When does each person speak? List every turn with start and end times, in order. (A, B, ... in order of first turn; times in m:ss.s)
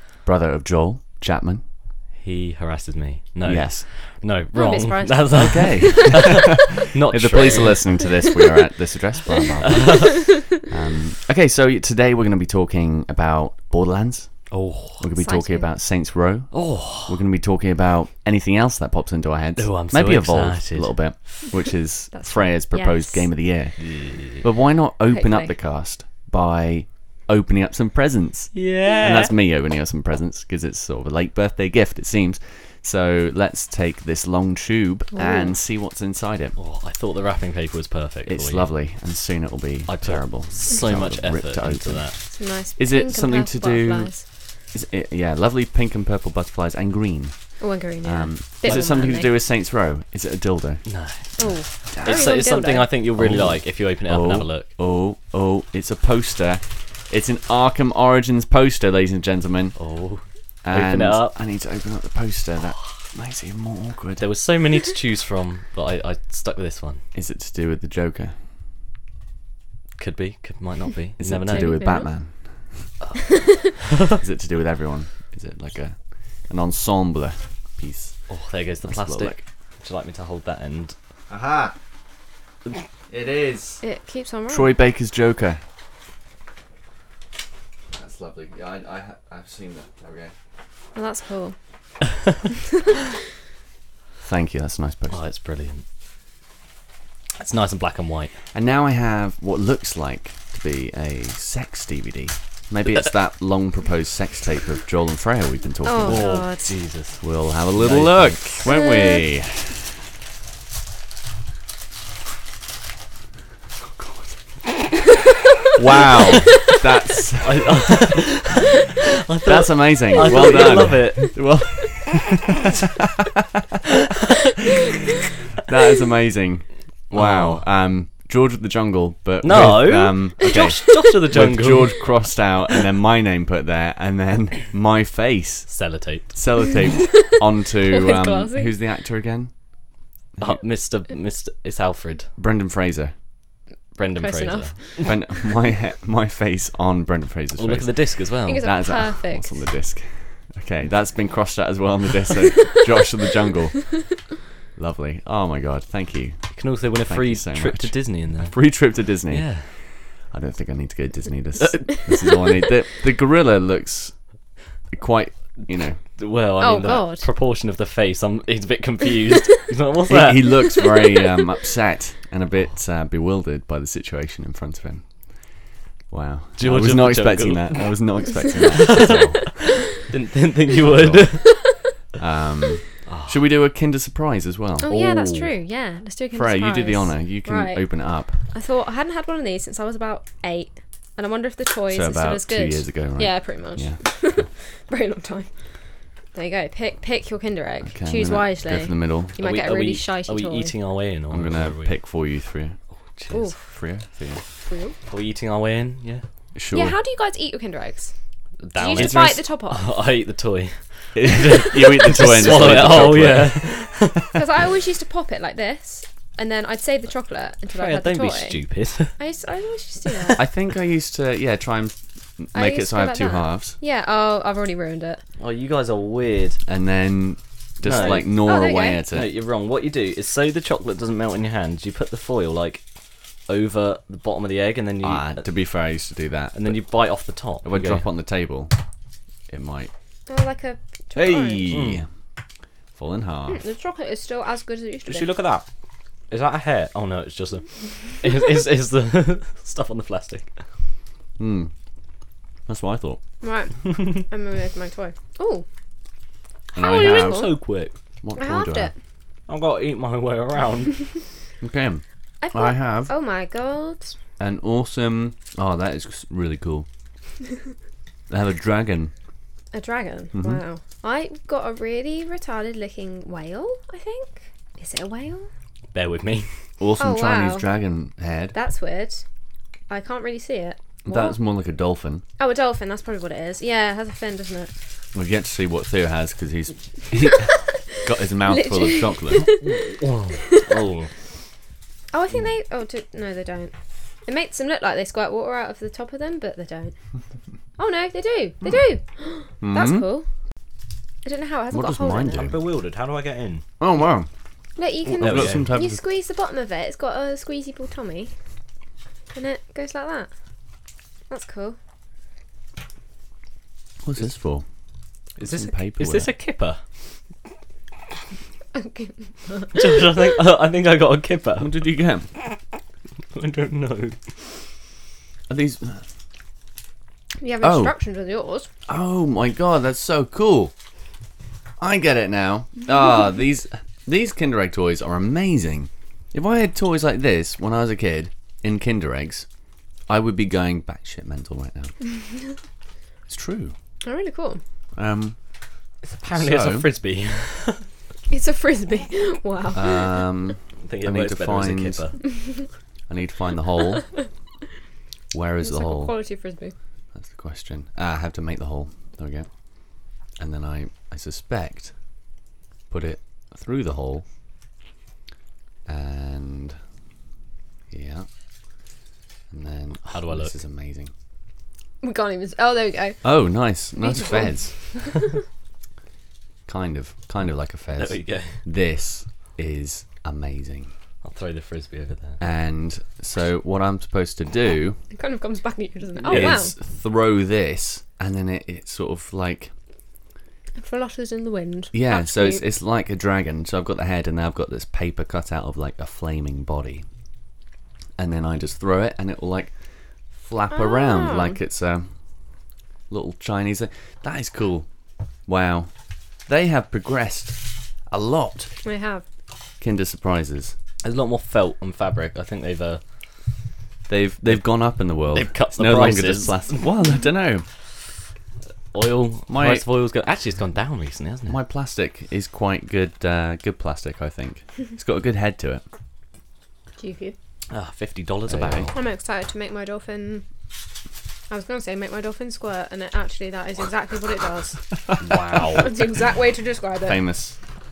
0:00.2-0:01.6 A
0:02.2-0:08.1 B
0:03.4-0:03.9 A
0:04.5-0:06.4 C
0:05.3-0:23.8 A
0:09.3-0:10.4 C
0:09.6-0:10.4 B
0:14.5-0:15.0 B
0:15.2-0:15.7 C
0:16.5-0:17.2 B
0:19.6-0:21.0 B
0:22.1-0:23.3 C
0:23.8-0:24.4 B
0:24.3-0:36.6 A
0:25.1-0:25.6 C
0:28.5-0:29.4 B
0:35.1-0:35.6 C
0:36.6-0:38.7 B
0:38.3-0:42.2 A
0:39.9-0:42.2 B
0:42.3-0:44.2 C
0:42.8-0:50.8 A
0:47.6-0:49.3 C
0:50.9-0:54.7 B
0:51.4-0:52.9 C
0:51.9-0:52.4 A
0:53.2-0:59.8 A
0:59.8-1:01.3 B
1:00.6-1:04.3 A
1:04.2-1:07.0 B
1:07.1-1:08.4 A
1:10.0-1:11.9 B
1:11.2-1:12.9 A
1:11.4-1:12.1 C
1:13.0-1:14.2 B
1:13.3-1:13.6 C
1:14.0-1:18.2 A
1:18.3-1:21.0 B
1:18.8-1:19.4 A
1:21.3-1:21.8 A
1:23.1-1:23.8 A
1:23.8-1:24.8 C
1:24.5-1:25.6 A
1:27.9-1:30.3 A
1:31.0-1:31.6 C
1:32.7-1:33.0 C
1:34.2-1:35.2 A
1:35.1-1:35.8 B
1:37.4-1:38.4 B
1:38.5-1:46.4 A
1:45.8-1:46.7 C
1:46.0-1:47.2 B
1:47.2-1:49.8 A
1:47.8-1:48.7 B
1:48.6-1:49.3 C
1:55.8-1:58.1 A
1:56.1-1:56.7 B
1:57.4-2:01.4 B
1:59.4-2:03.8 A
2:00.2-2:00.6 C
2:05.6-2:15.7 A
2:07.1-2:07.6 B
2:09.4-2:12.1 B
2:10.5-2:11.0 C
2:15.7-2:16.4 B
2:16.3-2:19.5 A
2:17.1-2:18.8 C
2:20.4-2:22.3 B
2:22.4-2:23.1 A
2:24.0-2:25.1 B
2:24.2-2:25.1 C
2:25.0-2:27.9 A
2:27.6-2:28.7 B
2:28.5-2:29.6 C
2:28.5-2:33.9 A
2:34.8-2:36.5 A
2:36.6-2:38.6 B
2:37.0-2:39.5 A
2:39.3-2:39.7 B
2:40.3-2:44.2 A
2:41.6-2:42.2 B
2:44.9-2:46.0 A
2:46.2-2:50.9 B
2:46.6-2:47.3 C
2:50.1-2:55.1 A
2:56.1-2:59.6 A
2:56.6-2:57.9 B
2:58.8-3:01.6 B
3:00.8-3:01.5 A
3:01.4-3:01.8 C
3:02.2-3:05.5 A
3:03.1-3:03.4 B
3:04.8-3:07.8 C
3:06.3-3:08.4 A
3:08.5-3:15.5 C
3:11.9-3:14.0 A
3:16.3-3:20.7 C
3:17.9-3:19.4 A
3:19.4-3:22.0 B
3:21.3-3:22.8 A
3:23.2-3:23.5 B
3:23.3-3:23.6 C
3:23.6-3:24.4 A
3:24.7-3:25.0 C
3:25.1-3:26.2 B
3:26.6-3:27.0 A
3:26.7-3:28.1 C
3:28.6-3:34.2 B
3:28.8-3:29.9 C
3:28.9-3:29.4 A
3:31.2-3:34.2 A
3:34.3-3:38.6 C
3:37.7-3:39.2 B
3:39.2-3:40.4 C
3:40.1-3:40.5 B
3:40.4-3:43.8 A
3:42.5-3:45.2 C
3:45.4-3:46.6 B
3:46.7-3:49.3 A
3:47.8-3:48.3 B
3:47.9-3:49.0 C
3:49.1-3:52.8 B
3:53.5-3:55.4 B
3:55.0-3:56.8 A
3:56.5-3:58.1 B
3:57.6-3:58.7 A
3:59.5-3:59.9 A
4:00.3-4:01.7 C
4:01.2-4:02.1 A
4:01.7-4:02.0 B
4:03.0-4:03.6 A
4:03.5-4:05.3 C
4:05.1-4:05.7 B
4:06.3-4:10.5 B
4:11.4-4:11.7 A
4:12.7-4:13.2 A
4:13.4-4:15.6 C
4:16.7-4:17.5 C
4:16.7-4:17.5 A
4:16.8-4:18.0 B
4:18.2-4:18.9 A
4:18.4-4:19.0 C
4:19.5-4:21.1 B
4:21.6-4:22.0 A
4:22.4-4:24.1 C
4:22.5-4:23.1 A
4:24.4-4:26.9 A
4:28.3-4:29.1 A
4:29.7-4:35.5 C
4:30.3-4:30.6 A
4:35.9-4:36.5 B
4:36.8-4:38.6 A
4:37.0-4:37.7 C
4:38.5-4:39.2 C
4:39.9-4:41.4 C
4:41.0-4:42.2 A
4:42.4-4:44.7 C
4:45.1-4:49.5 A
4:47.3-4:49.8 C
4:49.6-4:51.1 B
4:52.1-4:53.7 C
4:54.3-4:56.9 C
4:57.8-5:00.3 C
4:59.6-5:00.1 A
5:01.2-5:02.5 C
5:01.7-5:02.6 A
5:02.3-5:03.6 B
5:03.8-5:04.3 A
5:04.8-5:08.3 C
5:05.0-5:06.0 A
5:05.2-5:05.7 B
5:09.3-5:10.3 C
5:11.3-5:11.8 C
5:14.0-5:14.6 A
5:15.4-5:16.8 B
5:15.4-5:16.3 A
5:18.7-5:20.0 C
5:19.7-5:21.7 B
5:21.6-5:22.3 A
5:23.3-5:24.2 B
5:25.5-5:26.0 A
5:27.4-5:28.7 C
5:27.6-5:27.9 A
5:28.9-5:30.7 A
5:31.8-5:39.5 A
5:40.1-5:42.0 A
5:43.3-5:43.8 A
5:44.0-5:44.6 C
5:45.0-5:45.4 A
5:46.1-5:47.8 B
5:46.3-5:46.9 A
5:48.3-5:50.1 C
5:49.7-5:52.1 A
5:50.8-5:52.2 B
5:53.1-5:54.1 A
5:55.3-5:56.1 A
5:55.6-5:56.7 C
5:57.1-5:59.5 A
6:00.4-6:01.9 A
6:02.9-6:04.2 A
6:05.9-6:06.8 A
6:07.9-6:08.3 A
6:09.5-6:11.1 A
6:10.1-6:10.6 B
6:12.0-6:13.2 C
6:13.2-6:14.8 A
6:14.0-6:15.2 C
6:16.7-6:20.9 A
6:18.0-6:18.6 B
6:21.2-6:22.4 B
6:22.4-6:25.0 A
6:25.1-6:26.7 C
6:26.2-6:26.6 B
6:26.3-6:29.7 A
6:30.8-6:32.6 C
6:31.9-6:37.1 A
6:38.2-6:39.7 A
6:40.4-6:42.1 A
6:40.7-6:41.6 C
6:43.1-6:44.9 A
6:45.5-6:45.9 A
6:46.5-6:48.7 A
6:48.8-6:49.2 C
6:49.8-6:50.8 A
6:51.0-6:53.0 B
6:54.1-6:57.7 A
6:55.3-6:56.9 B
6:58.9-7:01.6 B
6:59.5-6:59.9 A
7:01.5-7:05.8 A
7:07.0-7:07.4 C
7:07.7-7:09.0 B
7:08.5-7:08.9 A
7:08.9-7:10.4 C
7:11.5-7:14.8 C
7:15.2-7:16.0 B
7:15.6-7:17.2 C
7:17.1-7:17.6 A